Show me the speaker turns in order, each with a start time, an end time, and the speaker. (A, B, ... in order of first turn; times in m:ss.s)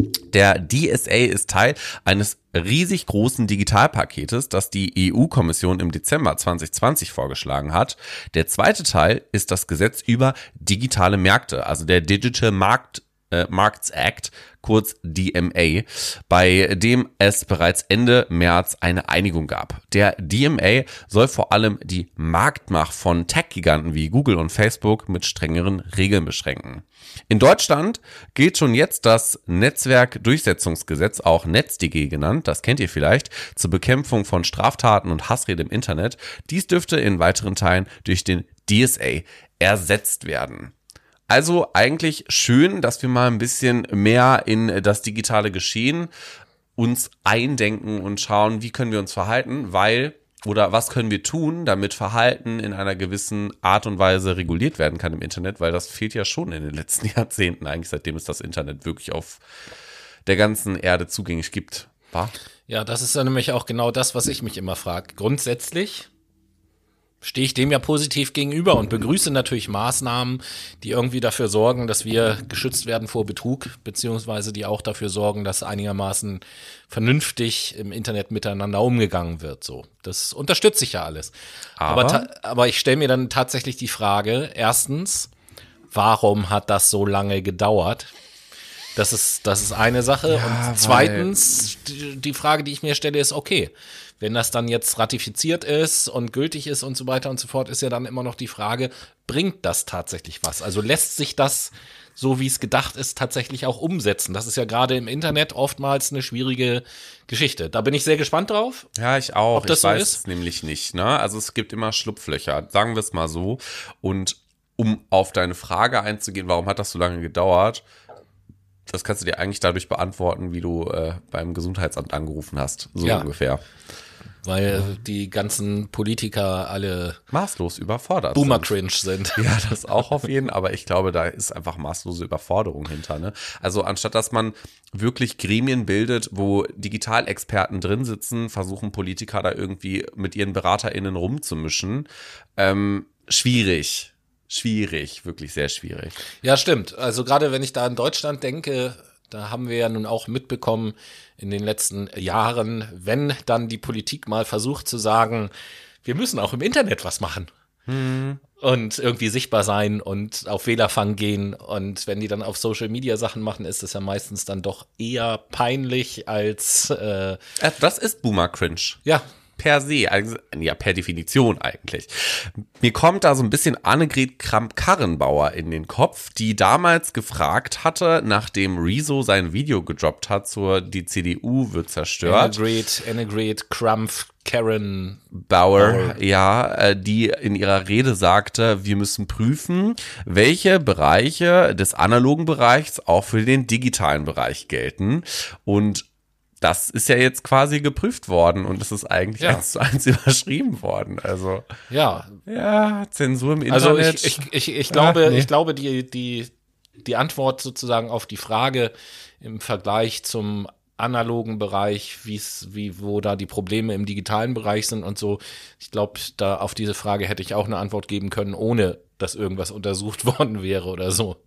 0:00.3-0:40.7 A
0:41.3-0:46.1 A
0:46.8-0:59.4 A
1:00.2-1:02.3 A
1:02.7-1:06.1 B
1:07.2-1:21.3 B
1:21.8-1:22.3 A
1:21.8-1:25.3 B
1:25.9-1:28.1 B
1:29.0-1:48.9 B
1:30.3-1:31.3 A
1:49.0-1:57.8 A
1:49.5-1:50.2 B
1:58.9-2:03.6 A
2:03.0-2:03.3 B
2:04.4-2:07.2 B
2:07.3-2:08.7 A
2:08.3-2:09.5 B
2:09.3-2:26.1 A
2:26.4-2:35.5 B
2:36.0-2:37.5 B
2:37.9-2:38.4 A
2:38.6-2:47.4 B
2:47.6-2:49.0 A
2:49.6-3:02.6 A
3:02.2-3:05.2 B
3:05.3-3:16.0 A
3:05.8-3:06.2 B
3:16.6-3:21.6 A
3:21.9-3:22.4 B
3:22.5-3:25.5 A
3:23.7-3:26.5 B
3:27.0-3:41.4 B